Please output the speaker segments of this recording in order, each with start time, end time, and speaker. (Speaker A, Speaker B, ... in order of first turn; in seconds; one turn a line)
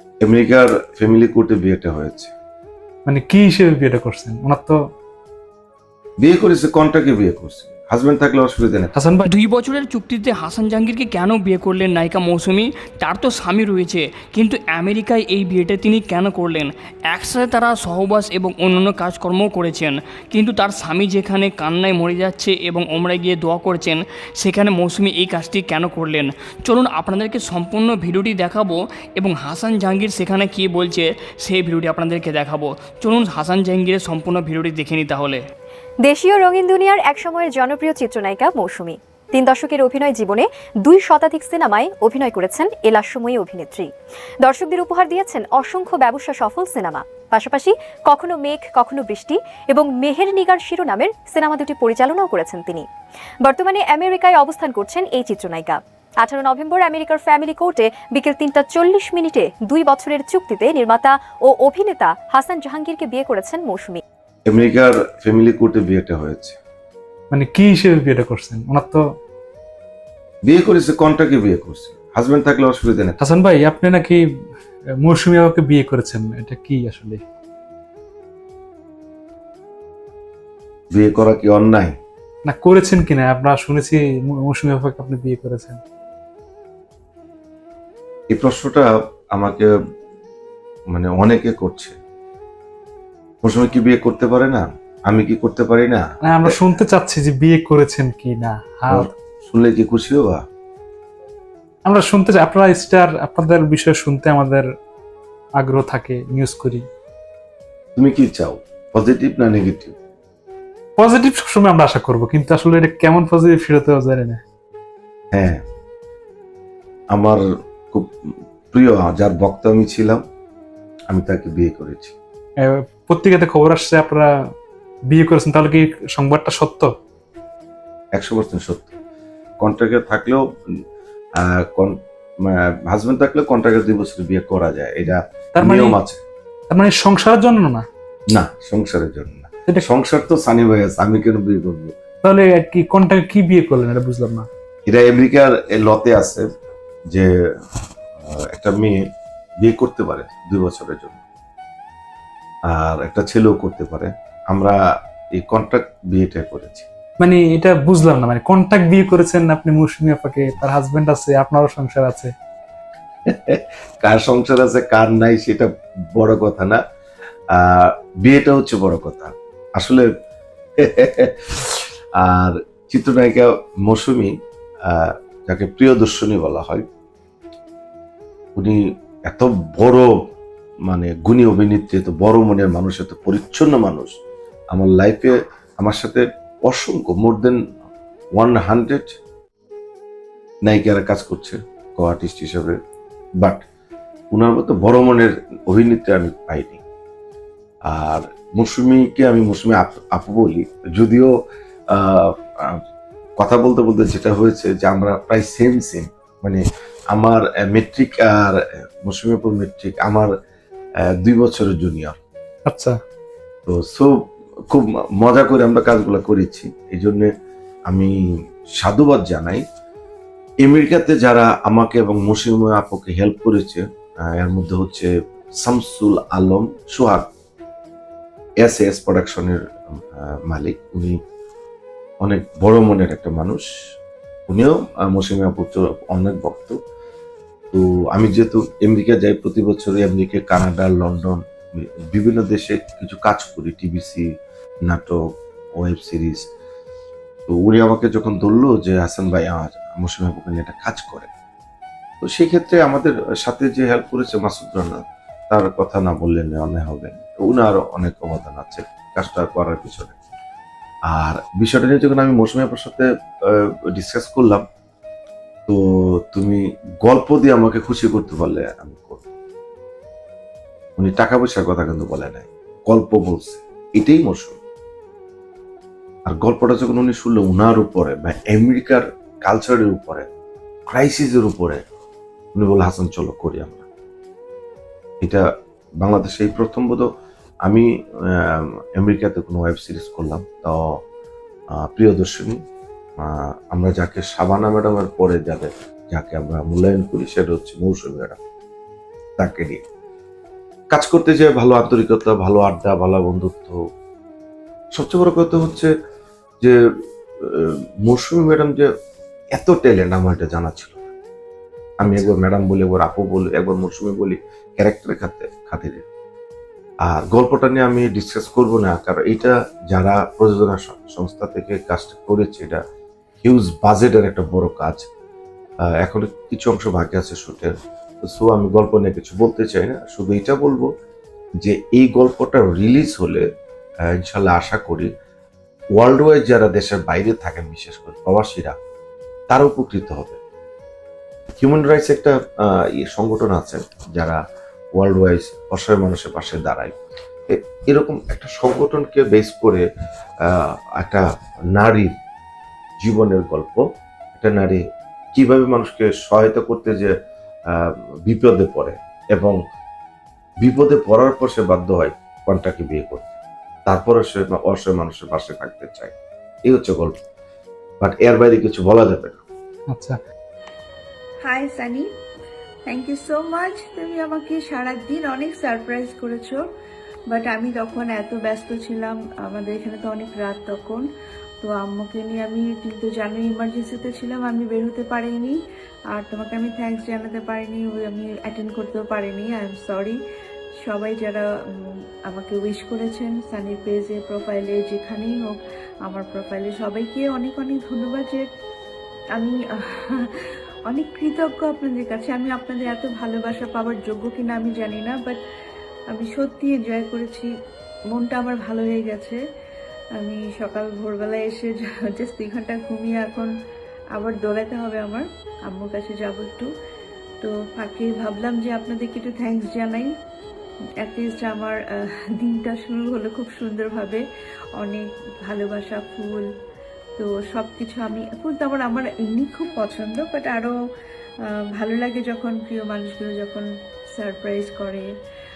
Speaker A: 0.2-2.3
Speaker B: 3.0-4.8
Speaker A: 6.2-8.9
Speaker B: 8.9-9.3
Speaker C: 9.3-35.4
Speaker D: 36.0-43.9
Speaker D: 44.4-52.9
Speaker D: 53.4-64.0
Speaker A: 64.5-66.6
Speaker B: 67.3-69.0
Speaker A: 70.5-73.2
Speaker B: 73.2-74.2
Speaker B: 75.0-77.2
Speaker A: 80.9-82.0
Speaker B: 82.5-85.8
Speaker A: 88.3-89.7
Speaker A: 90.9-92.0
Speaker A: 93.4-96.6
Speaker B: 96.2-99.1
Speaker A: 98.9-100.4
Speaker B: 101.8-104.7
Speaker B: 105.6-106.8
Speaker A: 108.0-109.9
Speaker B: 111.0-114.4
Speaker A: 115.3-115.6
Speaker A: 117.1-120.2
Speaker A: 121.1-122.2
Speaker B: 122.6-124.3
Speaker B: 125.1-126.9
Speaker A: 128.2-128.9
Speaker A: 129.6-130.4
Speaker A: 131.4-136.2
Speaker B: 135.6-135.9
Speaker B: 136.7-137.9
Speaker A: 138.3-142.0
Speaker B: 142.2-144.5
Speaker A: 144.9-146.5
Speaker A: 148.2-149.0
Speaker A: 149.6-151.2
Speaker A: 152.7-154.8
Speaker A: 155.3-156.9
Speaker B: 157.2-162.3
Speaker A: 163.3-166.8
Speaker A: 167.5-170.1
Speaker A: 170.8-174.3
Speaker A: 174.9-176.8
Speaker A: 178.6-180.1
Speaker A: 180.9-184.1
Speaker A: 184.7-187.6
Speaker A: 188.3-189.2
Speaker A: 190.6-192.8
Speaker A: 193.4-193.6
Speaker A: 194.3-196.8
Speaker A: 197.9-201.3
Speaker A: 201.9-202.8
Speaker A: 203.4-210.3
Speaker A: 211.2-212.2
Speaker B: 212.7-213.0
Speaker A: 213.7-214.2
Speaker A: 214.7-217.3
Speaker A: 218.8-219.6
Speaker A: 220.6-227.3
Speaker A: 228.6-229.6
Speaker A: 230.1-231.2
Speaker A: 232.2-233.7
Speaker A: 234.5-236.8
Speaker A: 237.7-244.2
Speaker A: 244.9-245.2
Speaker A: 245.8-246.4
Speaker A: 247.5-251.3
Speaker A: 252.2-260.1
Speaker A: 261.1-264.6
Speaker A: 265.7-269.2
Speaker A: 271.0-274.6
Speaker A: 276.3-280.3
Speaker A: 280.9-281.8
Speaker A: 282.5-283.8
Speaker A: 286.0-287.1
Speaker A: 287.6-290.8
Speaker A: 291.8-292.6
Speaker A: 293.2-298.4
Speaker A: 299.4-299.8
Speaker A: 300.9-303.8
Speaker A: 304.9-305.9
Speaker A: 307.4-308.9
Speaker A: 309.5-311.0
Speaker A: 312.0-316.0
Speaker A: 317.1-322.8
Speaker A: 323.4-325.1
Speaker A: 326.0-330.9
Speaker A: 331.6-333.4
Speaker A: 334.1-335.1
Speaker A: 335.9-338.8
Speaker A: 339.5-340.4
Speaker A: 341.6-344.4
Speaker A: 345.0-346.9
Speaker A: 347.5-349.8
Speaker A: 350.4-351.2
Speaker A: 351.7-352.1
Speaker A: 353.0-353.8
Speaker A: 354.4-354.8
Speaker A: 355.3-357.1
Speaker A: 357.7-359.6
Speaker A: 360.6-363.3
Speaker A: 363.9-366.1
Speaker A: 366.6-367.1
Speaker A: 368.0-369.4
Speaker B: 369.9-370.2
Speaker E: 371.4-372.1
Speaker E: 372.9-376.6
Speaker E: 377.3-381.0
Speaker E: 381.6-385.6
Speaker E: 386.1-390.2
Speaker E: 390.8-398.4
Speaker E: 399.4-400.3
Speaker E: 400.9-405.4
Speaker E: 406.1-407.5
Speaker E: 408.1-409.4
Speaker E: 410.2-413.5
Speaker E: 414.1-416.7
Speaker E: 417.4-420.1
Speaker E: 421.0-424.2
Speaker E: 424.8-426.5
Speaker E: 427.2-430.7
Speaker E: 431.8-435.1